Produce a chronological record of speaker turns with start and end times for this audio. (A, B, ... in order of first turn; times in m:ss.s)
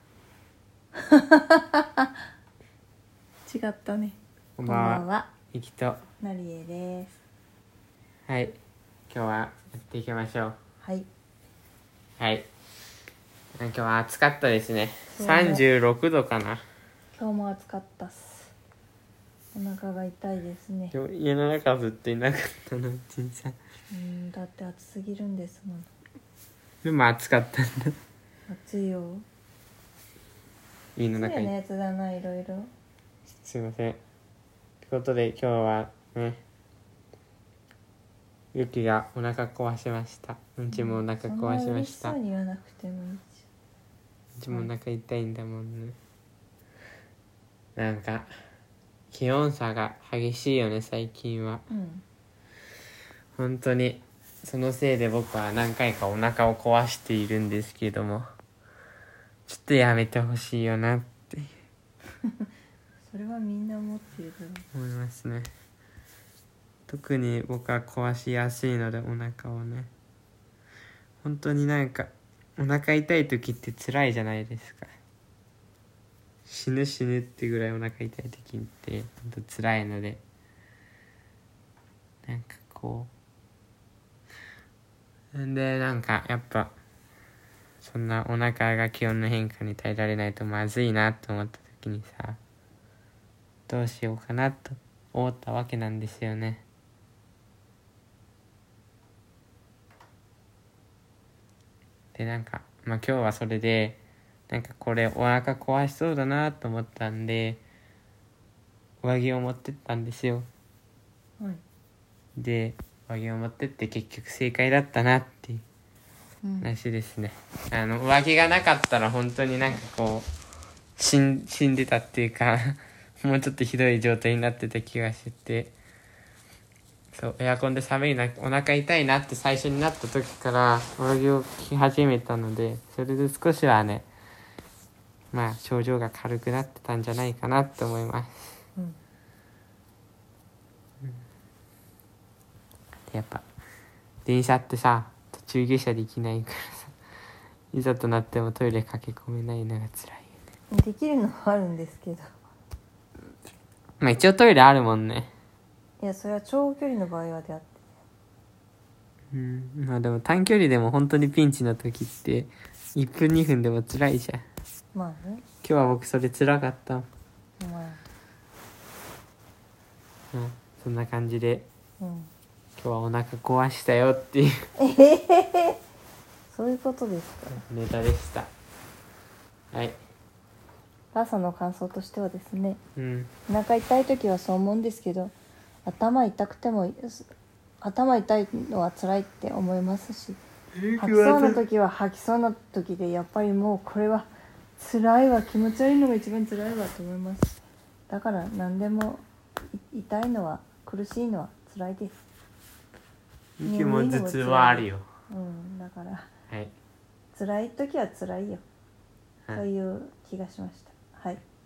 0:01.1-0:02.1 A
0:03.5-0:05.3 A
0:04.6-0:06.0 B
0:06.2-0:07.2 A
0:08.3-0:08.6 B
0:09.1-0:10.6 B
0:10.8-0:11.1 A
0:12.2-0:12.5 B
0:13.6-0:16.6 B
0:15.1-0:15.6 A
0:17.1-0:18.5 A
0:19.5-0:20.9 A
0:20.9-0:23.6 B
0:23.9-0:25.9 A
0:26.8-0:28.0 B
0:28.5-0:29.2 A
0:31.0-0:31.5 B
0:31.1-0:32.7 A
0:33.4-0:34.0 B
0:34.8-0:36.4 B
0:38.5-0:42.2 B
0:40.7-0:43.4 A
0:44.4-0:46.0 B
0:47.8-0:48.3 B
0:49.1-0:51.6 B
0:51.7-0:52.0 A
0:53.4-0:58.3 B
0:59.5-1:01.5 B
1:03.1-1:04.6 A
1:04.7-1:05.5 B
1:06.9-1:09.9 B
1:11.2-1:14.9 B
1:16.4-1:20.2 B
1:22.2-1:23.1 B
1:25.3-1:26.7 B
1:27.8-1:32.4 B
1:33.7-1:36.6 B
1:42.1-1:47.6 B
1:49.0-1:50.5 B
1:52.4-1:55.6 B
1:56.4-1:56.7 A
1:56.6-2:00.3 B
2:01.0-2:05.7 B
2:07.1-2:14.1 B
2:15.3-2:18.6 B
2:23.1-2:23.4 B
2:24.2-2:26.9 B
2:27.7-2:30.3 B
2:30.7-2:32.3 A
2:34.0-2:35.3 B
2:36.0-2:37.9 A
2:39.3-2:44.4 B
2:44.9-2:45.4 A
2:45.6-2:47.1 B
2:47.6-2:48.0 A
2:50.3-2:51.6 B
2:52.0-2:52.3 A
2:52.8-2:54.5 B
2:54.8-2:55.8 A
2:56.5-2:57.6 A
2:57.5-2:58.5 B
2:59.7-3:00.0 B
3:01.1-3:02.8 A
3:03.0-3:03.3 B
3:03.5-3:05.3 A
3:05.8-3:07.3 A
3:07.8-3:10.4 A
3:10.7-3:11.6 B
3:11.0-3:22.2 A
3:23.6-3:25.0 B
3:23.6-3:26.3 A
3:27.3-3:28.6 A
3:29.5-3:31.4 A